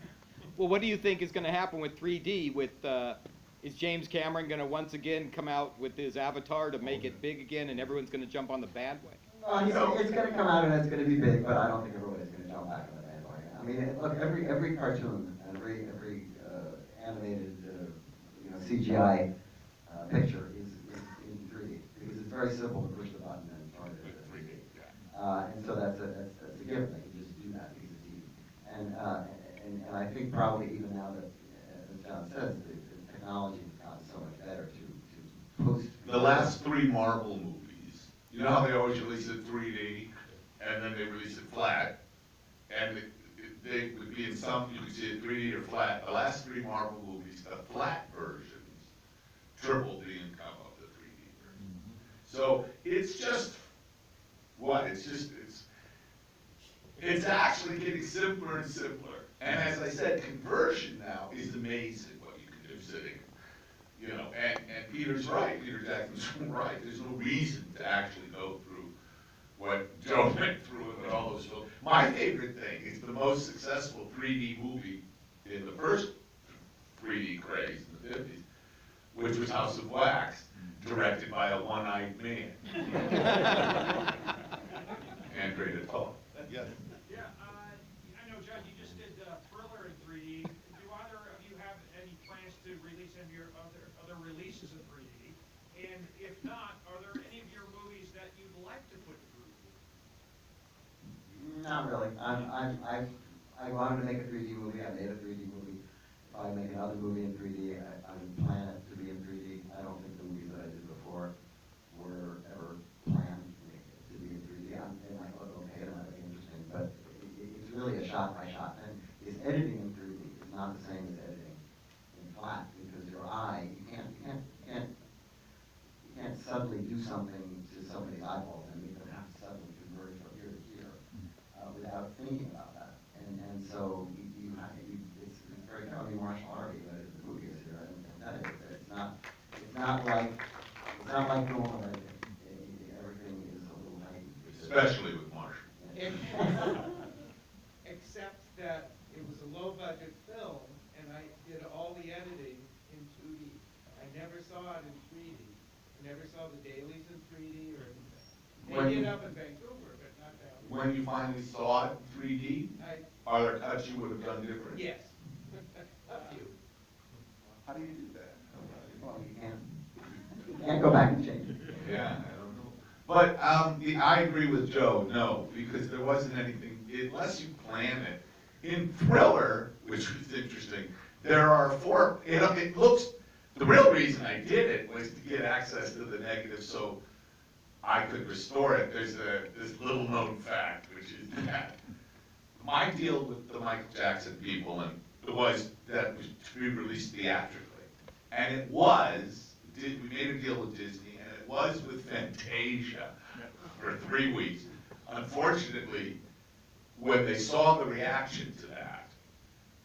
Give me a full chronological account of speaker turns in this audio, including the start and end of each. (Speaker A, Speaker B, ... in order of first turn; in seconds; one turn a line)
Speaker A: 0.6-9.2
Speaker B: 9.4-19.2
Speaker C: 9.6-10.0
Speaker B: 19.9-36.5
Speaker C: 24.0-24.9
Speaker C: 36.0-41.9
Speaker C: 42.7-48.9
Speaker C: 49.5-51.6
Speaker C: 52.2-53.7
Speaker C: 54.5-55.6
Speaker C: 57.0-63.3
Speaker C: 64.0-68.9
Speaker C: 69.6-78.4
Speaker C: 79.1-83.7
Speaker C: 85.2-86.8
Speaker D: 87.0-99.8
Speaker B: 101.3-111.3
Speaker B: 111.9-121.6
Speaker B: 122.1-124.9
Speaker B: 126.0-131.0
Speaker B: 131.5-144.9
Speaker C: 144.5-145.7
Speaker B: 145.8-146.7
Speaker E: 145.9-147.0
Speaker E: 147.8-160.7
Speaker B: 158.6-159.1
Speaker C: 160.6-164.8
Speaker E: 162.8-163.1
Speaker E: 164.7-165.1
Speaker E: 165.7-166.5
Speaker C: 167.6-168.4
Speaker B: 168.6-169.6
Speaker B: 170.4-171.8
Speaker C: 171.8-187.0
Speaker C: 187.8-191.8
Speaker C: 192.6-206.2
Speaker C: 206.9-209.1